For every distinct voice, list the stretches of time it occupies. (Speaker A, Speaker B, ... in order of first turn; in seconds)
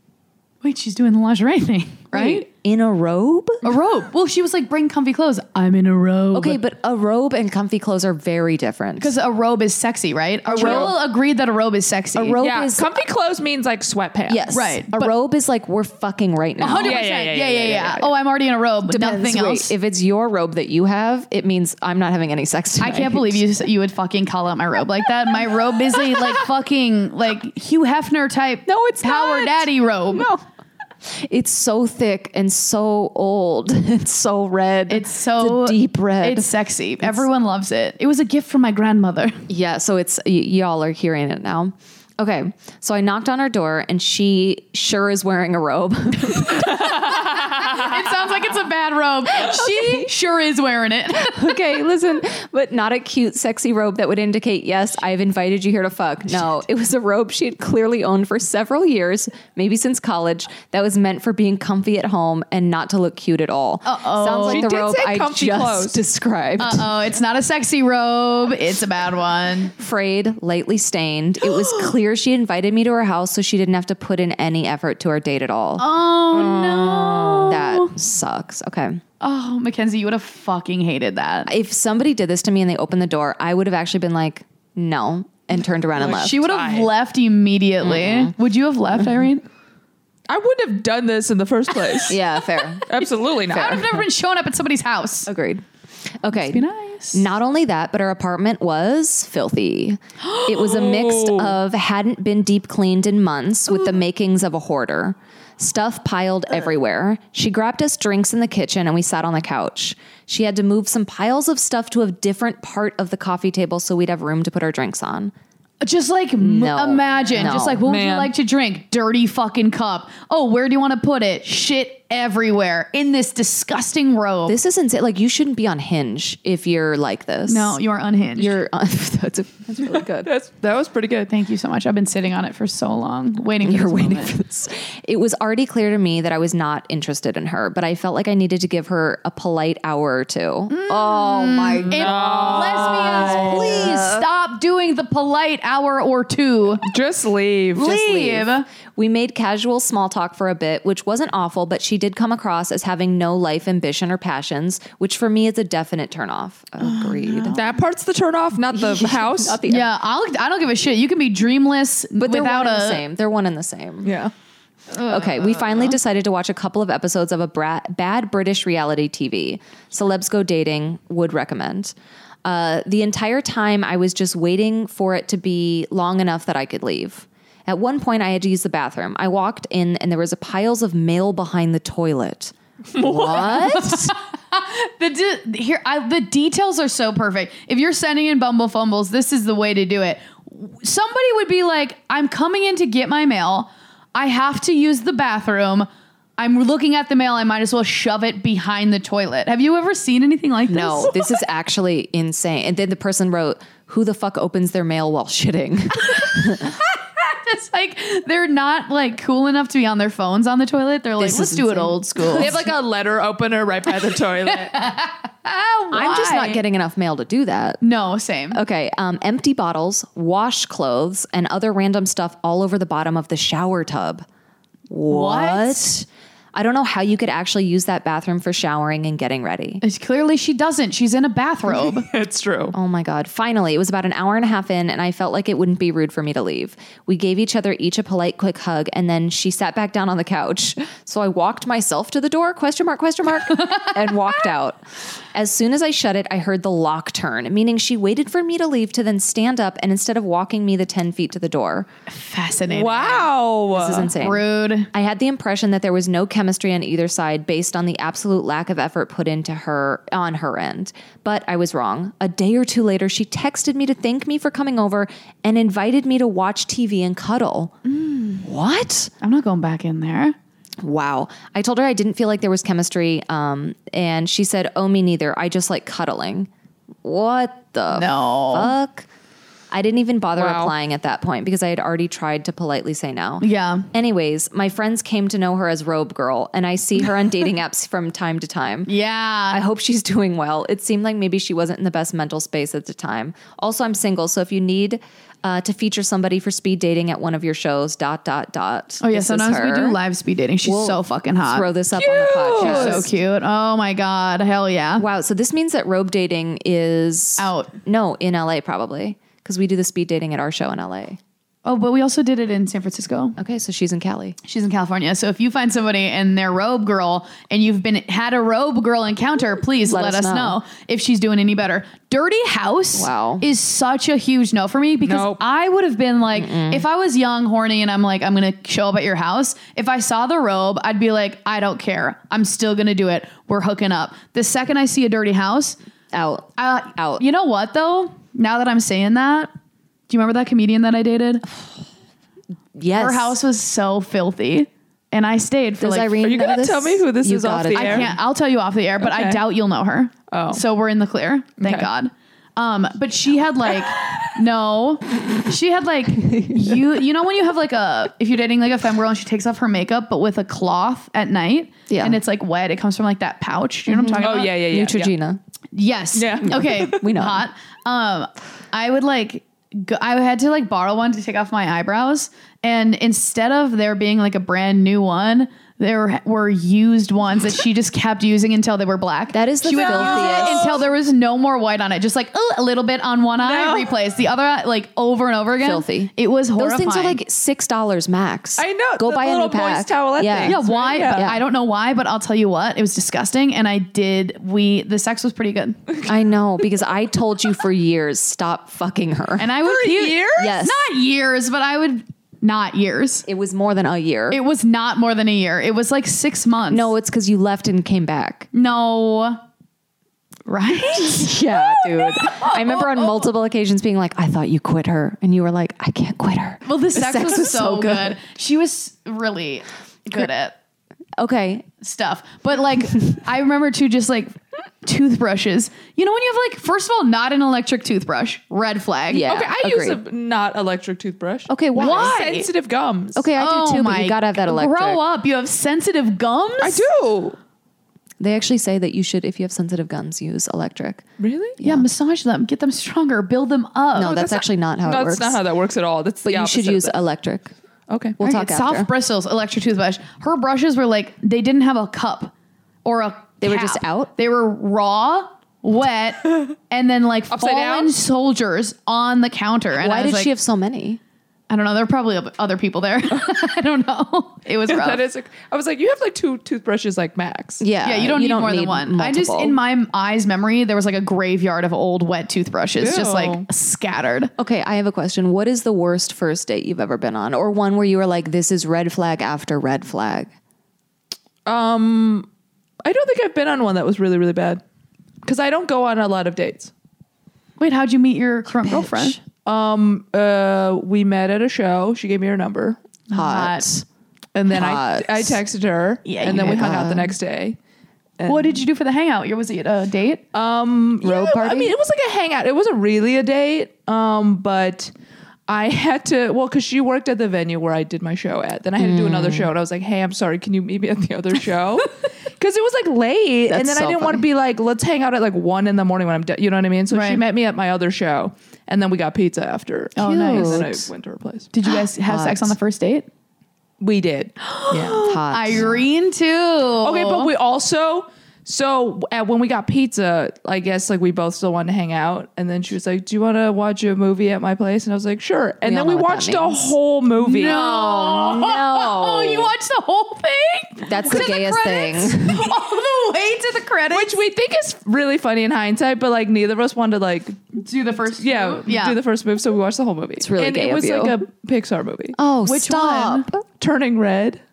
Speaker A: 0.6-2.5, 3.6-6.6, 9.0-12.4, 14.5-15.1, 16.6-19.7, 22.8-30.3, 34.9-39.4, 46.4-51.5, 63.9-64.7, 66.6-69.7, 71.6-71.8, 75.8-78.0, 79.2-81.5, 86.0-89.4, 93.5-95.3, 96.3-97.3, 115.8-124.6, 127.5-128.6, 131.3-134.3, 140.7-146.8, 147.8-148.7, 156.8-157.8, 159.7-163.0, 164.9-166.0, 183.0-201.2, 206.1-212.6, 214.7-216.6, 217.8-218.6, 225.1-225.9, 229.8-232.1, 243.7-243.9, 252.1-253.3, 254.1-254.9, 267.9-268.4, 269.2-270.4, 277.9-278.7, 283.4-283.9, 288.9-289.6, 299.0-301.7, 302.6-305.0, 307.4-307.7, 311.6-313.4, 314.4-335.8, 336.6-339.5, 340.1-341.5, 343.0-346.3, 347.7-364.6, 365.7-387.2, 390.4-395.8, 399.4-403.3, 404.3-406.9, 408.5-409.4, 410.5-412.9, 416.6-420.5, 421.8-429.3, 431.8-432.5, 433.4-436.9, 441.6-444.2, 448.2-452.3, 452.9-460.3, 461.5-465.0, 467.8-474.3, 487.6-489.2, 493.1-493.7, 496.1-496.9, 498.3-500.2, 516.9-517.2, 520.0-520.8, 521.5-523.1, 524.4-527.3, 537.2-544.2, 547.5-549.0, 552.5-553.3
Speaker B: 2.1-3.6, 6.3-9.2, 10.5-11.0, 12.2-12.9, 14.3-17.0, 18.9-23.4, 28.7-29.6, 31.1-36.5, 39.5-46.9, 49.4-50.1, 51.3-66.9, 69.8-75.9, 77.5-79.0, 81.5-86.4, 87.8-88.3, 92.1-92.9, 93.5-94.0, 95.3-95.6, 96.2-115.3, 116.4-117.8, 124.5-127.8, 128.3-130.3, 133.6-144.3, 147.8-157.6, 158.7-159.9, 162.2-164.1, 165.1-184.1, 200.7-206.8, 211.2-212.7, 215.9-217.8, 218.5-224.2, 224.9-229.8, 232.7-244.8, 245.3-251.9, 253.7-267.8, 268.4-269.1, 270.8-276.5, 277.0-279.1, 279.7-288.9, 289.5-300.0, 300.6-303.1, 305.0-311.2, 313.4-314.4, 319.9-320.6, 322.9-323.4, 326.4-326.8, 336.1-337.2, 342.8-343.4, 345.8-348.2, 356.2-356.8, 361.9-362.2, 363.9-365.4, 366.4-367.4, 379.3-380.9, 385.6-391.4, 396.1-399.5, 400.4-400.8, 403.3-404.4, 406.7-408.5, 411.0-418.2, 421.2-421.7, 429.1-430.0, 431.5-432.1, 433.1-435.0, 438.2-441.0, 441.6-441.9, 444.0-445.4, 446.2-447.5, 448.2-448.9, 453.4-454.1, 459.8-461.0, 467.6-469.6, 474.4-480.3, 488.7-489.2, 493.1-493.8, 494.5-495.4, 496.2-497.2, 501.0-501.7, 508.8-509.5, 513.5-514.2, 520.0-520.9, 522.1-522.5, 525.0-525.9, 535.6-536.8, 537.3-539.5, 540.8-542.6, 550.2-551.2, 552.2-553.4
Speaker C: 10.5-11.0, 12.4-14.5, 16.8-18.1, 28.9-29.6, 47.6-47.8, 64.5-66.0, 76.3-77.5, 86.0-86.9, 90.3-92.2, 92.9-93.9, 100.5-101.6, 117.3-118.3, 130.2-131.3, 141.9-143.9, 146.8-148.0, 157.5-159.6, 164.0-164.3, 183.0-183.4, 212.2-214.8, 231.8-232.8, 252.7-254.1, 280.4-280.7, 302.0-303.1, 325.0-325.4, 346.2-348.1, 349.0-349.4, 350.3-350.6, 351.6-351.9, 353.8-354.1, 364.2-365.1, 366.1-367.0, 379.7-380.9, 383.4-383.9, 388.6-391.3, 399.6-400.6, 429.2-433.2, 436.6-437.4, 441.2-441.6, 444.0-447.0, 447.9-448.2, 457.3-457.9, 464.7-467.6, 472.8-473.5, 481.4-482.3, 482.8-484.6, 485.2-486.7, 489.4-492.8, 494.4-497.6, 498.2-498.6, 500.3-504.9, 505.5-521.5, 523.8-525.1, 526.8-537.6, 543.9-547.5, 548.2-552.2, 553.6-554.4